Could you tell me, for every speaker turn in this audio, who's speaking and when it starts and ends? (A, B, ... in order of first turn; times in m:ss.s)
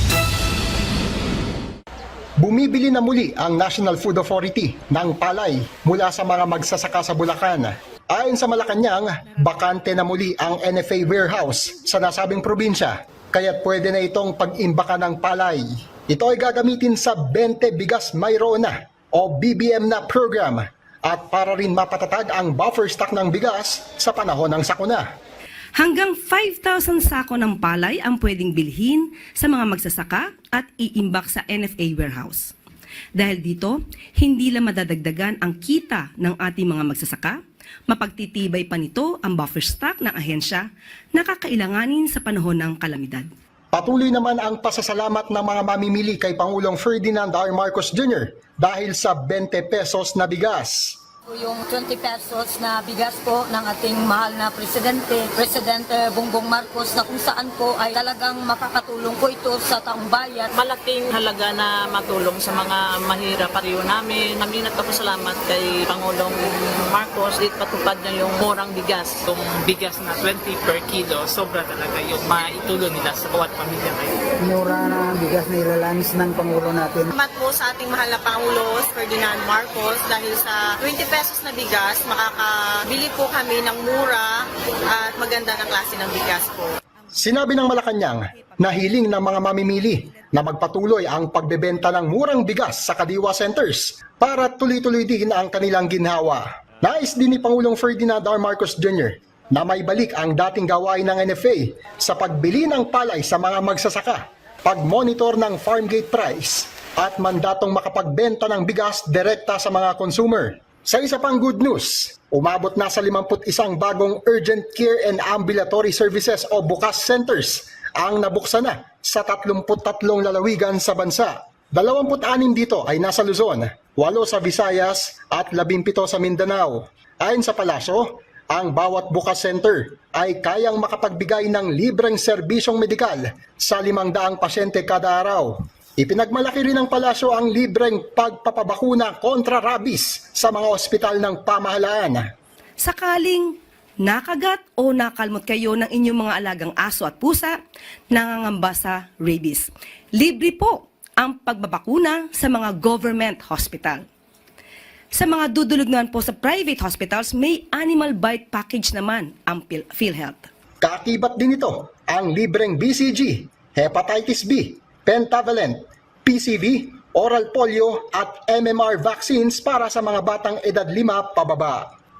0:02.4-0:25.0 A
0:25.8-0:32.5 B
0:33.2-0:43.3 B
0:43.7-0:51.0 A
0:51.4-0:54.2 C
0:54.9-0:55.5 C
0:57.0-0:57.4 C
1:00.5-1:09.3 D
1:09.4-1:14.1 E
1:14.4-1:17.1 F
1:17.1-1:26.8 G
1:27.2-2:22.3 A
2:22.8-2:27.6 B
2:28.1-2:34.0 B
2:35.1-2:40.5 B
2:40.8-2:51.9 A